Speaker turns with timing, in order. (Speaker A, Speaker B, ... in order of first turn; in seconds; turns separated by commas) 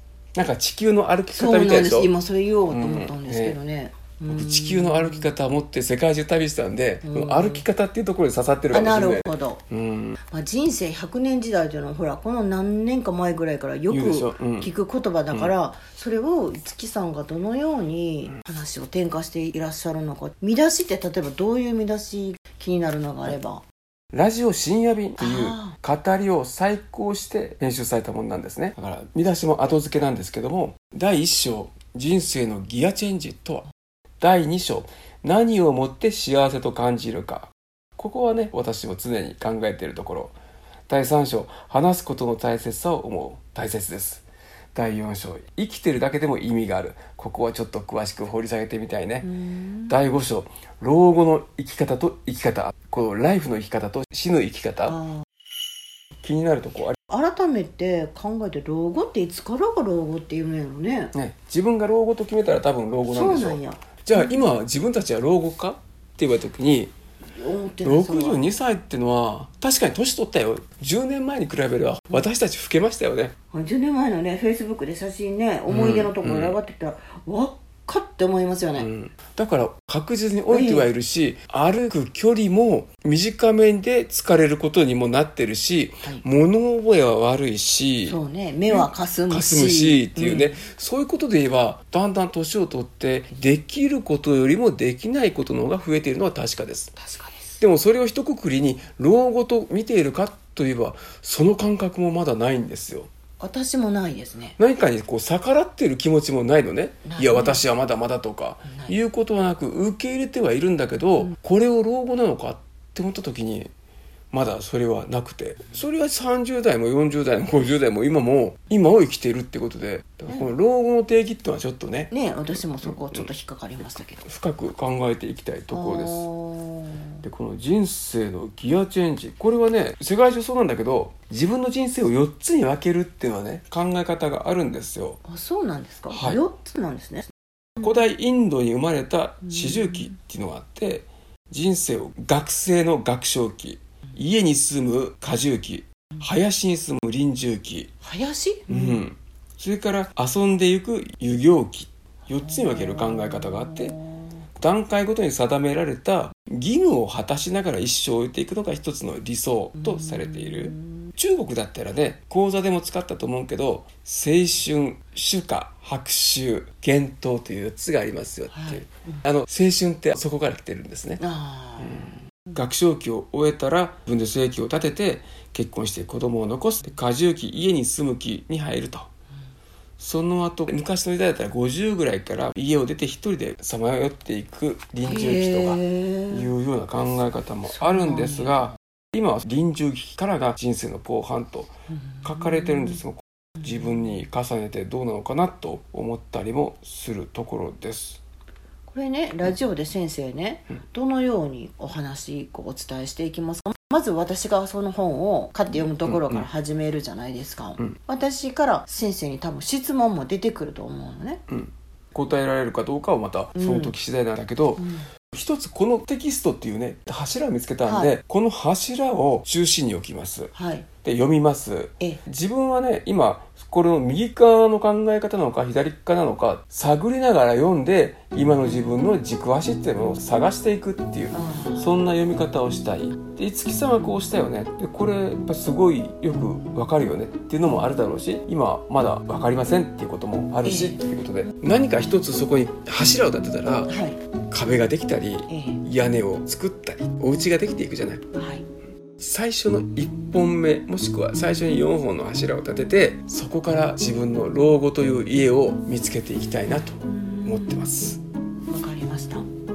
Speaker A: 0.3-2.1, Speaker B: 1.3-5.3, Speaker A: 2.7-3.6, Speaker A: 4.3-10.2, Speaker B: 7.0-7.6, Speaker B: 8.7-9.6, Speaker B: 10.2-23.6, Speaker A: 13.9-14.7, Speaker A: 24.1-33.6, Speaker B: 25.2-25.7, Speaker A: 34.2-40.3, Speaker A: 40.9-49.3, Speaker B: 49.2-49.9, Speaker A: 49.9-55.0, Speaker B: 54.9-55.2, Speaker A: 56.2-57.0, Speaker B: 57.1-61.1, Speaker A: 61.1-66.9, Speaker B: 63.1-63.8, Speaker B: 67.3-68.4, Speaker A: 67.8-73.3, Speaker B: 73.5-78.9, Speaker A: 75.7-76.6, Speaker A: 78.8-96.9, Speaker B: 80.5-80.9, Speaker B: 88.0-90.6, Speaker B: 97.0-97.6, Speaker A: 97.6-103.1, Speaker B: 103.4-104.6, Speaker A: 104.6-113.7, Speaker B: 107.0-107.6, Speaker B: 108.7-109.0, Speaker A: 114.3-122.1, Speaker B: 122.1-124.2, Speaker A: 122.8-123.3, Speaker A: 124.2-126.2, Speaker B: 125.7-127.2, Speaker A: 127.2-135.2, Speaker B: 135.2-137.3, Speaker A: 136.1-136.4, Speaker A: 137.8-147.9, Speaker B: 148.0-149.0, Speaker A: 148.7-153.9, Speaker B: 152.5-154.3, Speaker A: 154.6-171.2, Speaker B: 159.8-161.1, Speaker B: 168.5-169.2, Speaker B: 171.2-172.2, Speaker A: 171.8-179.1, Speaker A: 180.0-191.7, Speaker B: 185.0-186.5, Speaker B: 187.8-188.6, Speaker A: 192.2-198.2, Speaker B: 198.9-211.4, Speaker A: 206.1-206.4, Speaker A: 211.5-220.5, Speaker B: 213.5-213.9, Speaker B: 214.8-215.1, Speaker B: 217.8-218.1, Speaker B: 220.5-220.9, Speaker A: 221.0-243.9, Speaker B: 231.3-231.8, Speaker B: 240.6-241.0, Speaker B: 243.9-244.2, Speaker A: 244.5-248.2, Speaker B: 245.5-245.8, Speaker B: 248.3-248.6, Speaker A: 249.2-258.2, Speaker B: 257.0-257.8, Speaker B: 258.7-259.5